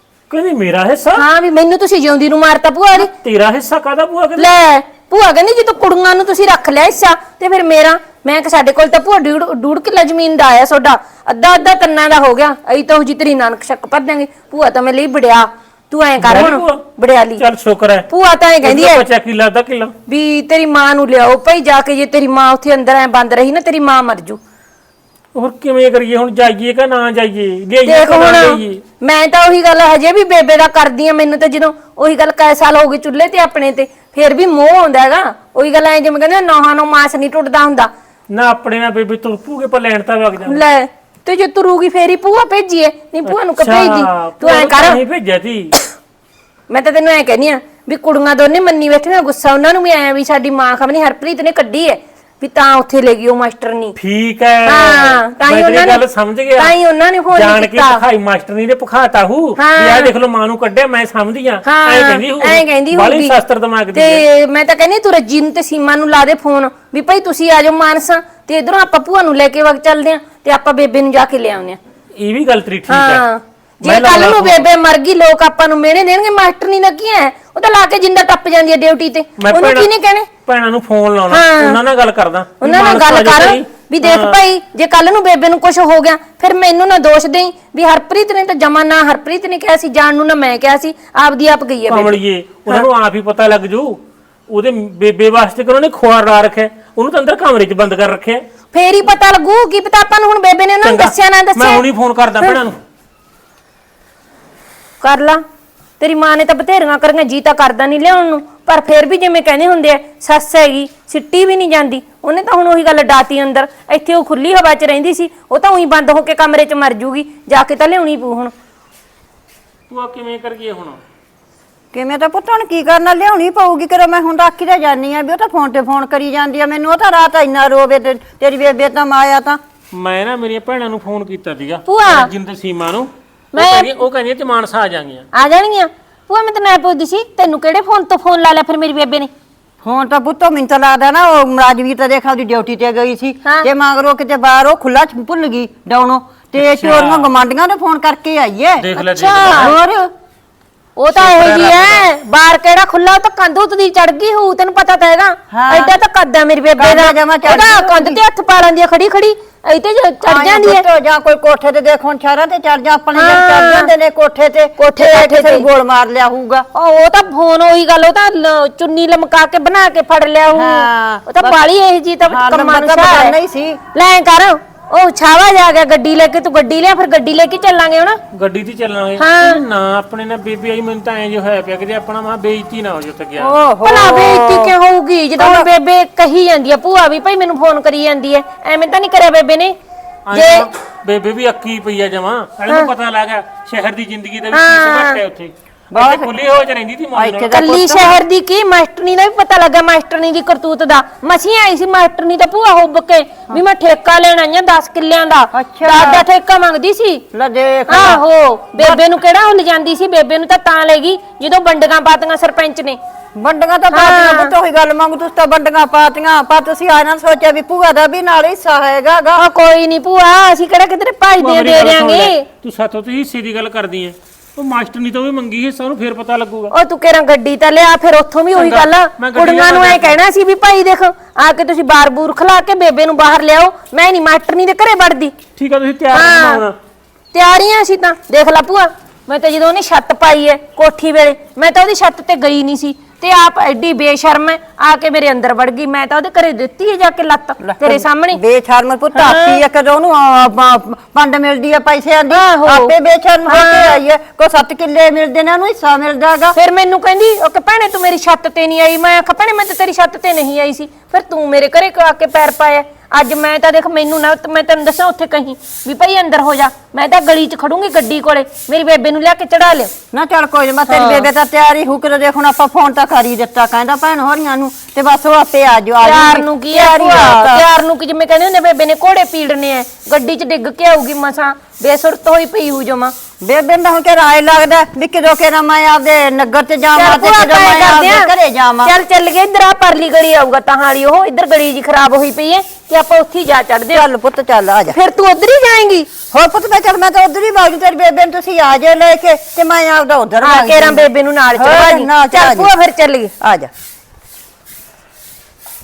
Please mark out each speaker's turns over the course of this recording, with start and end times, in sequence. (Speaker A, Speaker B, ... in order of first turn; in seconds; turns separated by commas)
Speaker A: 0.3-1.2, Speaker B: 1.2-3.1, Speaker A: 3.0-4.5, Speaker B: 4.4-17.4, Speaker A: 16.2-18.1, Speaker B: 18.1-19.1, Speaker A: 18.6-19.9, Speaker B: 20.1-24.4, Speaker A: 25.4-28.8, Speaker B: 27.9-37.9, Speaker A: 38.3-40.6, Speaker B: 40.5-45.0, Speaker A: 43.3-45.7, Speaker B: 46.7-54.0, Speaker A: 54.0-56.8, Speaker B: 54.7-56.0, Speaker B: 56.6-58.0, Speaker A: 57.3-64.2, Speaker B: 59.6-60.1, Speaker B: 61.6-63.4, Speaker B: 63.9-71.8, Speaker A: 72.2-73.2, Speaker B: 72.9-80.3, Speaker A: 73.8-74.7, Speaker A: 79.4-79.9, Speaker A: 80.5-84.4, Speaker B: 81.3-81.8, Speaker B: 82.6-92.2, Speaker A: 91.9-94.0, Speaker A: 94.5-98.4, Speaker B: 98.7-101.8, Speaker A: 100.8-102.8, Speaker B: 105.0-105.4, Speaker B: 106.0-118.5, Speaker A: 119.9-121.0, Speaker C: 121.9-129.6, Speaker A: 129.9-135.3, Speaker B: 131.9-132.3, Speaker B: 133.5-133.9, Speaker B: 135.3-139.3, Speaker C: 139.8-148.9, Speaker A: 146.6-147.3, Speaker A: 148.8-149.8, Speaker B: 149.0-149.7, Speaker C: 149.5-150.1, Speaker B: 151.0-160.8, Speaker A: 151.1-152.1, Speaker C: 155.5-155.9, Speaker C: 156.8-158.2, Speaker C: 160.2-166.7, Speaker B: 163.2-163.9, Speaker B: 164.8-165.7, Speaker B: 166.7-173.3, Speaker C: 170.5-171.6, Speaker C: 172.3-173.8, Speaker B: 173.9-178.2, Speaker A: 178.3-183.6, Speaker B: 179.2-179.6, Speaker C: 183.4-184.7, Speaker B: 183.8-189.8, Speaker C: 185.4-185.7, Speaker A: 190.3-197.5, Speaker B: 190.3-190.7, Speaker B: 194.5-195.2, Speaker C: 195.9-196.3, Speaker C: 197.2-198.2, Speaker B: 197.5-207.2, Speaker C: 205.5-206.2, Speaker C: 207.3-208.2, Speaker B: 207.9-213.0, Speaker C: 208.8-209.0, Speaker C: 213.4-219.4, Speaker B: 213.9-214.5, Speaker B: 219.3-222.5, Speaker A: 221.4-226.7, Speaker B: 226.7-235.3, Speaker A: 228.6-230.2, Speaker A: 235.6-236.8, Speaker B: 236.1-236.6, Speaker B: 237.3-248.4, Speaker C: 247.6-256.6, Speaker B: 249.2-249.6, Speaker B: 252.3-252.9, Speaker B: 253.5-254.0, Speaker B: 256.6-269.9, Speaker C: 270.1-277.6, Speaker B: 270.9-271.3, Speaker B: 276.0-283.1, Speaker C: 283.4-288.9, Speaker B: 286.9-288.3, Speaker B: 288.8-294.1, Speaker C: 293.9-295.0, Speaker B: 294.9-296.1, Speaker C: 296.3-302.7, Speaker B: 300.4-303.3, Speaker C: 303.4-303.7